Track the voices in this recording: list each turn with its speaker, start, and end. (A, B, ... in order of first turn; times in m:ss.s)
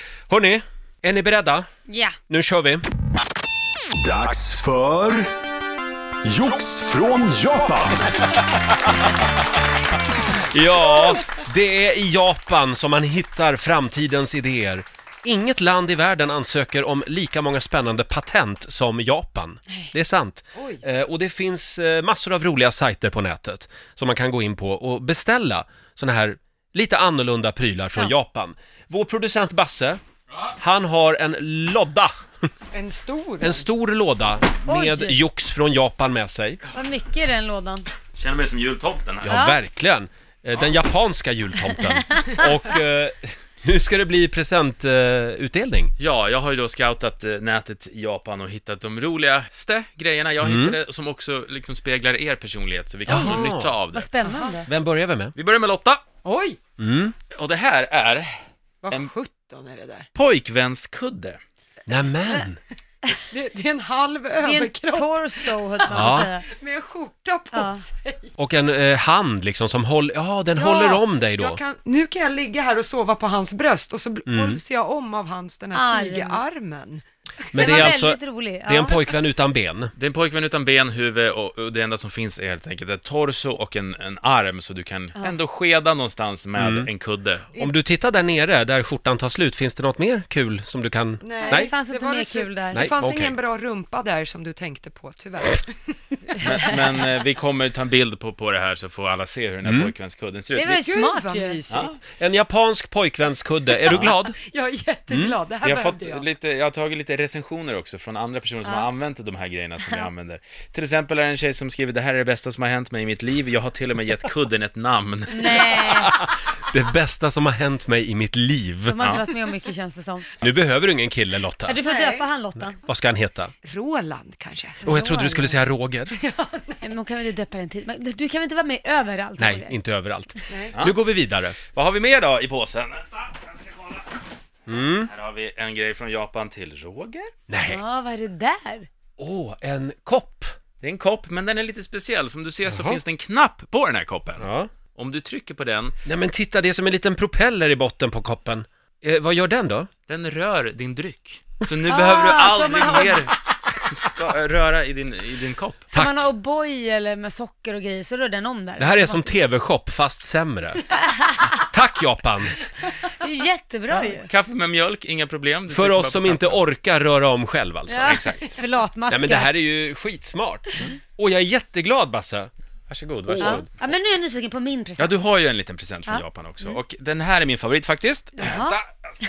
0:00.3-0:01.7 A
0:01.9-0:02.2 B
0:02.3-0:02.8 A
0:04.0-0:05.3 C
0:06.2-0:08.1 C
0:10.3-0:30.0 A
0:20.5-0:20.8 D
0:30.6-0:32.1 A
0:32.7-0:33.6 D
0:33.4-0:36.6 A
0:34.6-0:35.2 B
0:36.7-0:37.9 B
0:38.1-0:39.3 E
0:39.2-0:45.9 A
0:39.2-0:39.6 B
0:46.0-0:54.1 E
0:50.4-0:50.8 A
0:53.1-0:53.7 A
0:53.1-0:53.4 B
0:53.9-0:54.7 B
0:54.2-0:54.6 D
0:54.7-0:55.3 A
0:55.3-0:56.0 E
0:56.2-0:56.6 D
0:56.8-0:57.1 A
0:57.3-0:58.4 E
0:58.8-1:00.1 D
1:00.1-1:01.4 E
1:01.9-1:02.6 A
1:03.3-1:08.3 D
1:04.4-1:06.5 B
1:05.9-1:06.3 A
1:07.5-1:07.8 B
1:08.4-1:11.6 A
1:10.5-1:17.9 D
1:14.3-1:14.6 A
1:15.7-1:16.4 B
1:17.5-1:19.9 A
1:17.5-1:19.1 B
1:20.0-1:27.6 E
1:26.6-1:26.9 A
1:27.6-1:31.7 A
1:31.2-1:36.4 D
1:31.4-1:32.9 B
1:32.7-1:33.3 A
1:36.4-1:40.8 E
1:39.6-1:39.9 A
1:40.5-1:41.6 B
1:40.8-1:42.0 D
1:42.2-1:44.4 A
1:43.9-1:46.2 D
1:45.1-1:45.3 A
1:45.6-1:55.7 E
1:55.3-1:56.1 B
1:56.0-1:59.0 A
1:58.9-2:00.3 B
1:59.0-1:59.2 E
2:00.4-2:01.8 A
2:01.6-2:02.8 B
2:01.8-2:02.3 D
2:02.8-2:03.5 A
2:03.6-2:04.9 D
2:04.8-2:05.5 B
2:04.8-2:06.2 A
2:06.1-2:06.8 D
2:06.8-2:09.8 B
2:09.4-2:11.6 A
2:10.5-2:10.7 D
2:10.7-2:11.0 E
2:11.7-2:14.2 E
2:14.7-2:15.1 A
2:15.0-2:17.3 E
2:17.5-2:17.8 A
2:17.6-2:18.9 B
2:19.2-2:20.5 A
2:20.8-2:25.9 E
2:22.7-2:23.0 A
2:24.4-2:24.7 A
2:26.0-2:29.9 A
2:30.1-2:35.8 E
2:31.9-2:33.3 B
2:35.9-2:39.2 B
2:35.9-2:36.3 A
2:38.8-2:42.6 A
2:40.9-2:41.6 B
2:43.2-2:44.3 B
2:43.9-2:46.6 E
2:45.7-2:48.2 A
2:47.9-2:49.5 B
2:48.0-2:48.6 E
2:49.1-2:52.5 A
2:52.9-2:53.6 E
2:53.3-2:53.6 A
2:53.4-2:55.1 B
2:55.0-2:58.9 E
2:56.0-2:56.8 B
2:58.4-2:58.8 B